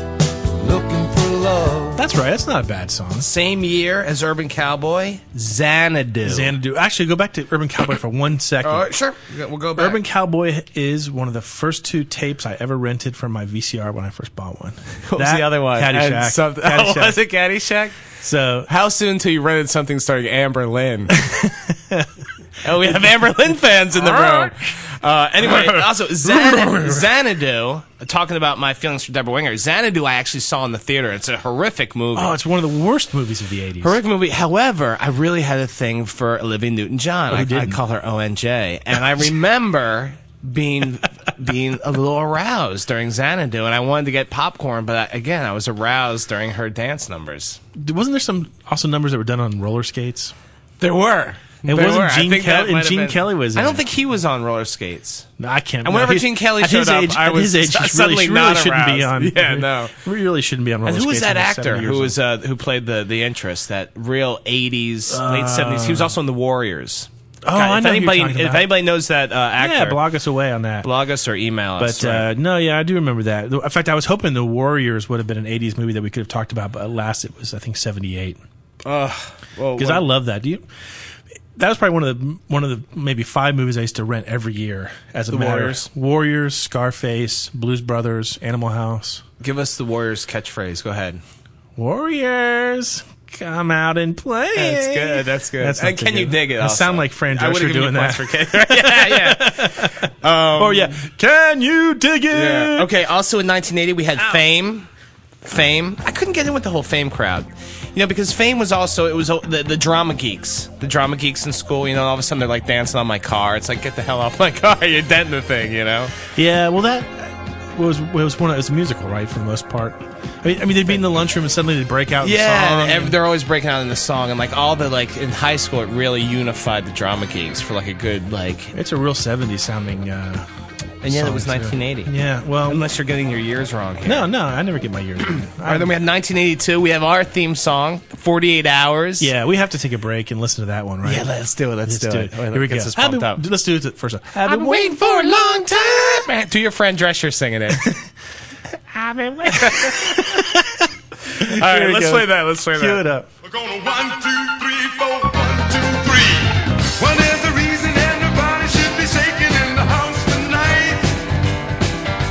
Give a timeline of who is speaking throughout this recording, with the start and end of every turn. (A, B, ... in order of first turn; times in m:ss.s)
0:00.5-0:02.0 A
0:02.0-0:03.3 B
0:03.2-0:06.5 C
0:06.2-0:08.9 B
0:08.6-0:10.0 C
0:09.8-0:17.2 B
0:15.0-0:18.0 C
0:18.2-0:18.7 B
0:18.7-0:21.2 C
0:21.1-0:22.1 B
0:22.6-0:32.4 C
0:22.8-0:23.2 B
0:23.9-0:24.7 B
0:25.4-0:27.1 B
0:32.1-0:34.0 B
0:33.8-0:47.6 C
0:37.3-0:37.8 B
0:47.7-0:50.3 B
0:50.8-0:55.3 C
0:51.6-0:53.8 B
0:55.4-1:02.2 B
0:55.8-1:00.0 C
1:00.8-1:10.0 C
1:05.1-1:06.1 B
1:07.4-1:08.7 B
1:09.6-1:10.9 B
1:10.8-1:12.3 C
1:11.8-1:18.4 B
1:18.8-1:20.1 C
1:19.8-1:20.6 B
1:21.6-1:29.2 B
1:25.3-1:25.9 C
1:29.4-1:31.2 C
1:31.8-1:42.9 B
1:34.5-1:41.0 C
1:42.3-1:44.9 C
1:45.4-1:56.1 C
1:56.3-2:03.2 B
2:02.2-2:08.7 C
2:08.7-2:10.4 B
2:11.0-2:12.1 C
2:11.0-2:12.8 B
2:12.6-2:14.3 C
2:14.0-2:15.9 B
2:15.5-2:19.3 C
2:19.2-2:21.3 B
2:21.0-2:23.4 C
2:21.8-2:26.1 B
2:24.4-2:27.9 C
2:28.9-2:30.5 C
2:29.4-2:33.3 B
2:31.3-2:33.0 C
2:33.4-2:41.2 A